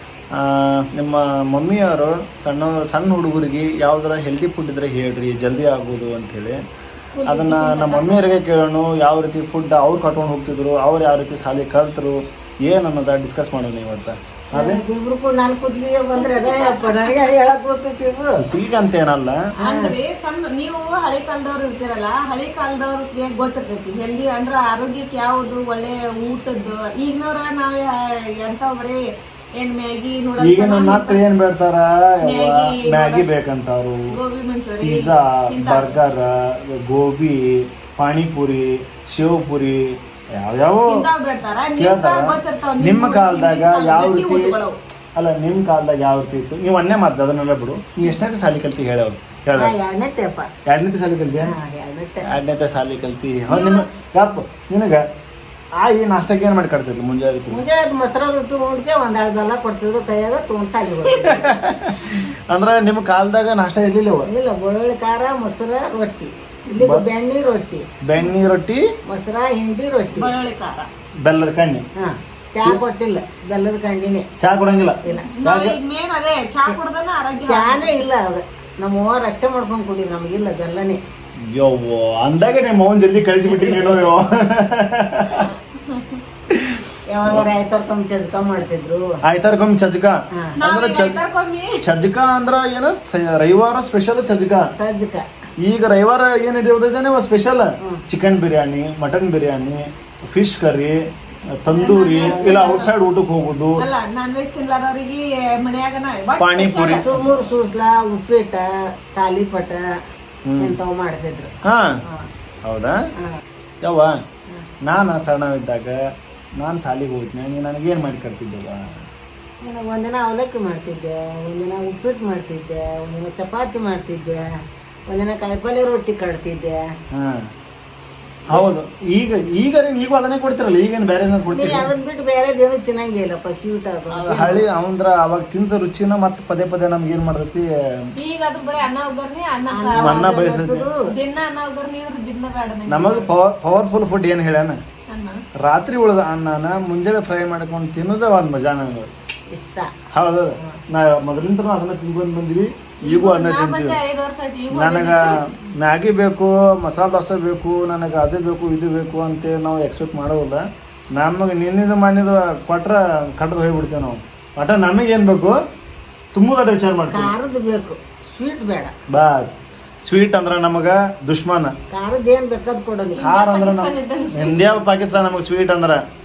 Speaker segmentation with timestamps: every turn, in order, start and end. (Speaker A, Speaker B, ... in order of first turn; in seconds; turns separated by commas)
Speaker A: 0.3-6.6, Speaker B: 7.0-8.3, Speaker A: 7.3-14.8, Speaker C: 14.5-18.4, Speaker B: 16.2-16.9, Speaker A: 18.4-19.4, Speaker C: 19.6-19.9, Speaker B: 19.6-29.0, Speaker B: 29.6-31.2, Speaker A: 30.4-34.1, Speaker B: 32.2-33.3, Speaker B: 34.1-35.9, Speaker A: 34.8-41.0, Speaker B: 40.8-44.8, Speaker A: 41.8-44.5, Speaker A: 45.1-49.7, Speaker C: 49.6-50.5, Speaker A: 50.6-51.5, Speaker C: 51.4-52.3, Speaker A: 52.3-55.0, Speaker B: 53.5-53.9, Speaker A: 55.8-57.6, Speaker C: 57.5-61.5, Speaker B: 61.1-62.2, Speaker A: 61.2-64.3, Speaker C: 64.2-67.8, Speaker A: 66.8-67.0, Speaker A: 68.0-68.8, Speaker C: 69.1-70.3, Speaker B: 70.1-70.9, Speaker A: 71.2-71.8, Speaker C: 72.0-74.2, Speaker A: 74.4-75.8, Speaker B: 75.1-78.0, Speaker C: 77.4-81.0, Speaker A: 81.5-85.5, Speaker B: 85.3-86.2, Speaker A: 86.5-87.5, Speaker C: 87.1-89.0, Speaker A: 89.2-91.2, Speaker B: 90.6-91.8, Speaker A: 91.8-94.7, Speaker C: 94.7-95.2, Speaker A: 95.6-101.0, Speaker A: 101.6-103.8, Speaker B: 101.7-102.9, Speaker C: 102.2-102.7, Speaker B: 103.8-107.0, Speaker A: 106.4-107.2, Speaker C: 106.9-109.8, Speaker A: 110.5-110.8, Speaker C: 110.6-111.5, Speaker A: 111.7-112.0, Speaker A: 112.6-113.0, Speaker A: 113.8-114.2, Speaker A: 114.8-116.0, Speaker A: 116.6-118.8, Speaker C: 119.6-124.4, Speaker C: 125.1-126.8, Speaker A: 127.1-127.5, Speaker A: 128.5-131.9, Speaker C: 131.5-134.6, Speaker A: 134.1-137.7, Speaker B: 138.2-140.4, Speaker C: 139.7-141.0, Speaker A: 140.0-140.8, Speaker B: 141.0-143.3, Speaker A: 142.9-144.8, Speaker B: 145.1-145.4, Speaker A: 145.6-149.1, Speaker C: 149.5-149.9, Speaker A: 150.1-154.0, Speaker B: 153.1-155.4, Speaker A: 154.7-160.6, Speaker A: 161.1-165.6, Speaker A: 166.3-167.3, Speaker C: 167.1-168.9, Speaker A: 169.1-171.7, Speaker C: 171.9-173.2, Speaker B: 173.2-174.7, Speaker A: 173.2-176.0